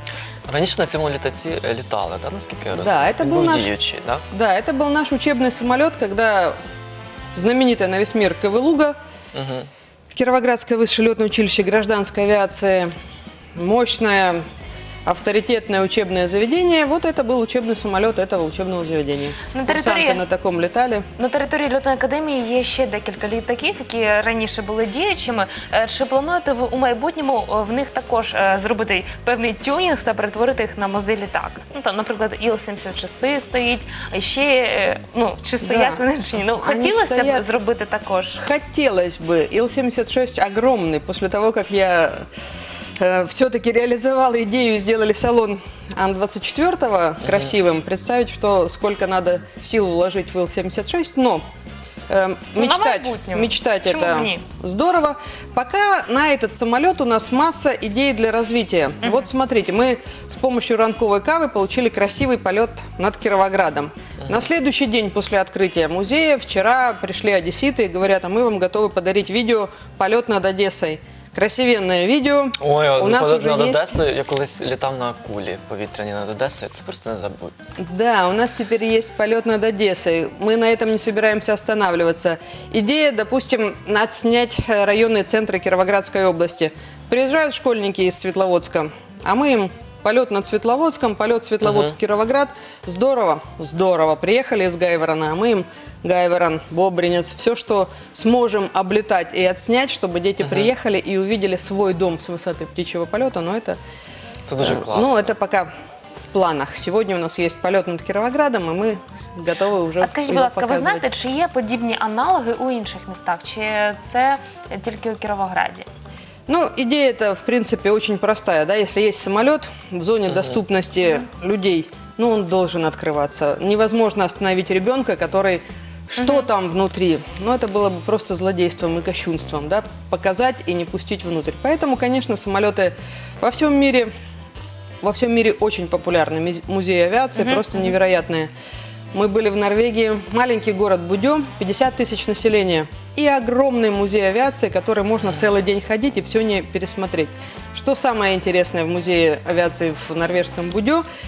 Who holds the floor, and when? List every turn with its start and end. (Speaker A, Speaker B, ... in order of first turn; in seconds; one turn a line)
Speaker A: 0.5-4.2
Speaker B: 2.7-3.7
Speaker B: 4.3-6.6
Speaker B: 7.3-9.0
Speaker A: 9.3-9.7
Speaker B: 10.1-12.9
Speaker B: 13.6-14.4
Speaker B: 15.1-21.1
Speaker C: 19.5-20.2
Speaker C: 21.2-38.4
Speaker B: 35.6-36.0
Speaker B: 36.6-37.5
Speaker B: 38.4-42.2
Speaker B: 43.0-51.4
Speaker B: 52.1-74.0
Speaker C: 52.6-54.4
Speaker A: 72.6-77.5
Speaker B: 77.8-103.8
Speaker A: 104.5-105.3
Speaker B: 104.6-105.7
Speaker B: 106.3-111.1
Speaker C: 110.0-115.9
Speaker B: 116.5-134.1
Speaker B: 135.0-138.5
Speaker B: 139.1-151.1